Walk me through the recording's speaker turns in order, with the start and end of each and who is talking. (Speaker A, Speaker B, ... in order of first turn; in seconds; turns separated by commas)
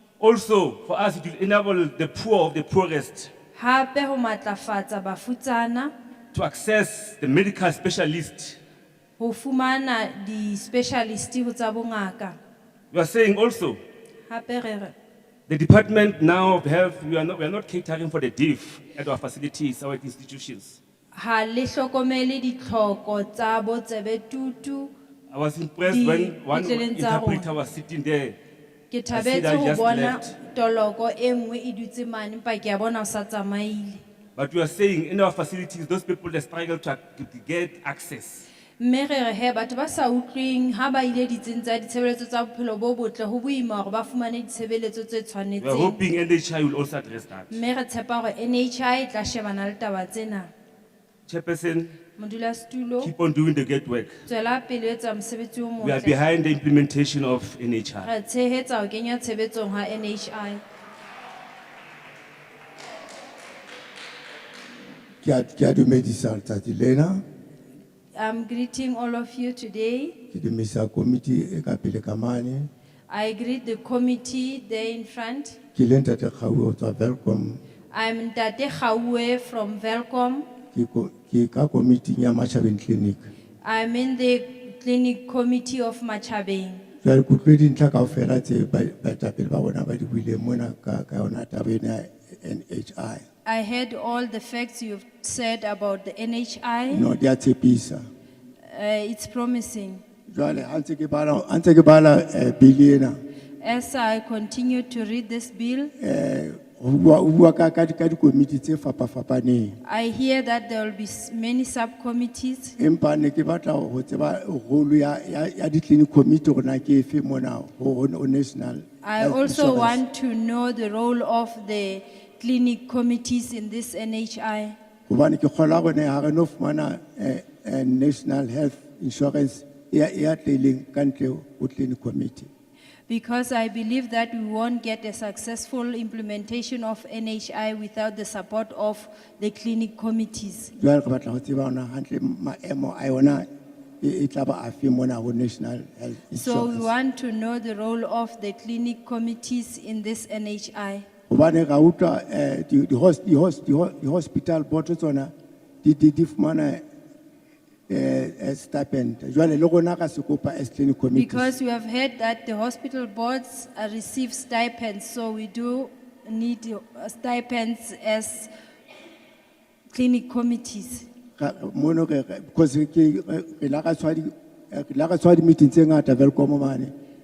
Speaker A: 0.2-3.3, Speaker B: 3.5-5.9, Speaker A: 6.3-8.6, Speaker B: 9.2-12.4, Speaker A: 12.9-13.8, Speaker B: 14.3-14.9, Speaker A: 15.5-20.8, Speaker B: 21.1-24.9, Speaker A: 25.3-28.4, Speaker B: 25.8-27.5, Speaker B: 28.9-34.0, Speaker A: 29.1-30.3, Speaker A: 34.4-38.5, Speaker B: 38.8-46.0, Speaker A: 45.6-47.6, Speaker B: 47.5-50.5, Speaker A: 51.3-51.9, Speaker B: 52.2-53.1, Speaker A: 53.0-54.2, Speaker B: 54.3-56.2, Speaker A: 55.8-58.1, Speaker B: 58.0-60.6, Speaker C: 65.2-67.2, Speaker B: 68.2-70.1, Speaker C: 70.3-72.7, Speaker B: 73.1-75.6, Speaker C: 75.7-77.6, Speaker B: 77.9-80.5, Speaker C: 80.7-83.3, Speaker B: 83.6-86.8, Speaker C: 87.0-93.2, Speaker B: 93.4-97.0, Speaker C: 96.9-98.0, Speaker B: 98.6-100.0, Speaker C: 100.3-103.2, Speaker B: 103.6-105.9, Speaker C: 106.0-109.8, Speaker B: 109.8-112.7, Speaker C: 112.8-120.0, Speaker B: 119.0-124.8, Speaker C: 125.1-132.5, Speaker B: 133.1-140.7, Speaker C: 140.8-143.5, Speaker C: 144.0-146.9, Speaker B: 146.4-151.1, Speaker C: 151.3-156.8, Speaker C: 157.9-161.5, Speaker B: 161.1-168.5, Speaker B: 169.9-171.1, Speaker C: 171.4-176.9